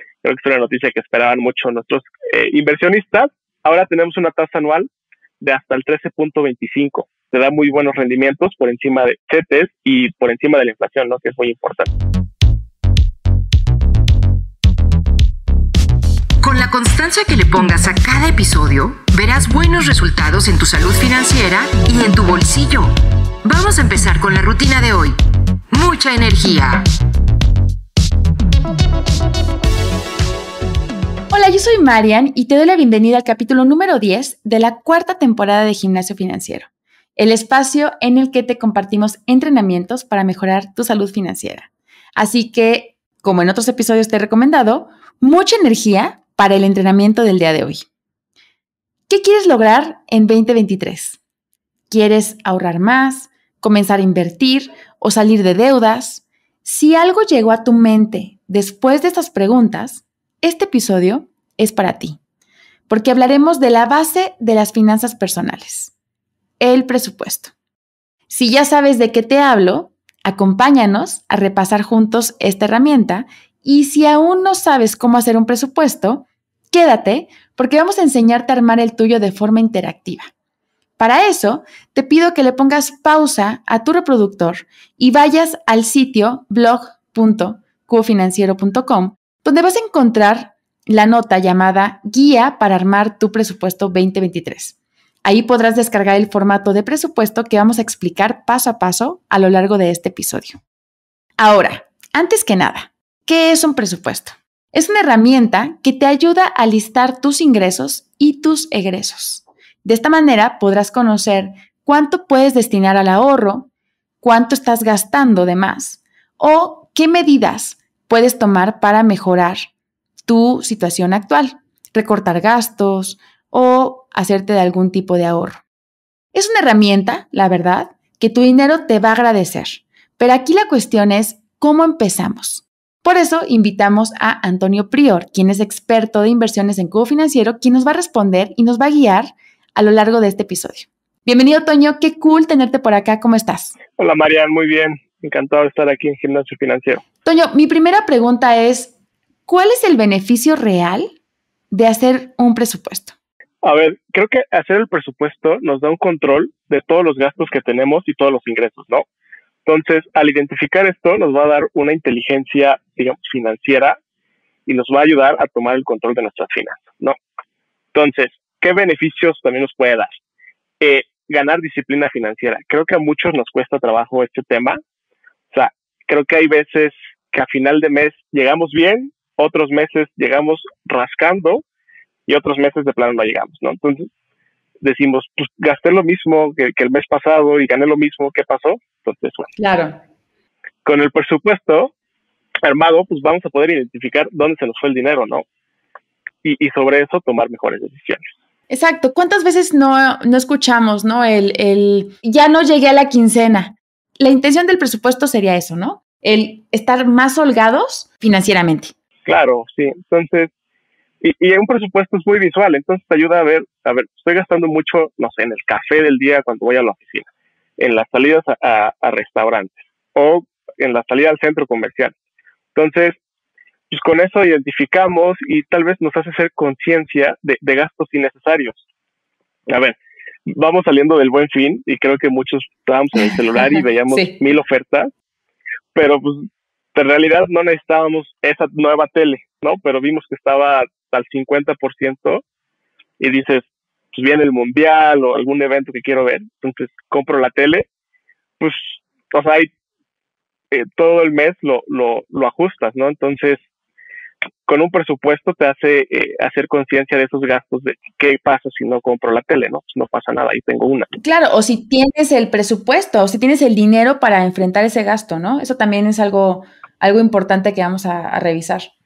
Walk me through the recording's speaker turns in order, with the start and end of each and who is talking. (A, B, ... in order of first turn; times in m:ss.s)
0:00.2-0:04.9 A
0:05.4-0:11.9 A
0:16.4-0:22.9 B
0:23.4-0:25.1 B
0:25.7-0:26.8 B
0:31.3-0:47.8 C
0:49.1-0:51.2 C
0:51.9-1:02.2 C
1:02.9-1:05.9 C
1:06.6-1:07.5 C
1:08.3-1:20.3 C
1:21.0-1:40.6 C
1:41.4-1:53.7 C
1:54.2-1:59.7 C
2:00.2-2:05.6 C
2:06.3-2:23.8 C
2:24.0-2:27.0 A
2:27.2-2:28.9 C
2:29.5-2:31.1 C
2:31.7-2:33.1 C
2:33.6-2:39.0 A
2:39.6-2:44.0 A
2:44.6-2:47.2 A
2:47.9-2:50.1 A
2:50.8-2:54.8 A
2:55.5-3:01.6 A
3:02.3-3:04.1 A
3:04.8-3:09.5 A
3:09.6-3:10.0 C
3:10.8-3:11.9 A
3:12.6-3:15.4 A
3:16.4-3:18.3 A
3:18.7-3:28.9 C
3:29.2-3:30.5 A
3:31.2-3:42.1 A
3:42.7-3:43.2 A
3:43.9-3:48.8 A
3:49.7-3:55.1 A
3:53.6-3:54.4 C
3:55.9-4:02.4 A
4:03.2-4:07.9 A
4:08.6-4:09.7 A
4:10.7-4:13.6 A
4:14.6-4:21.1 A
4:21.2-4:28.9 C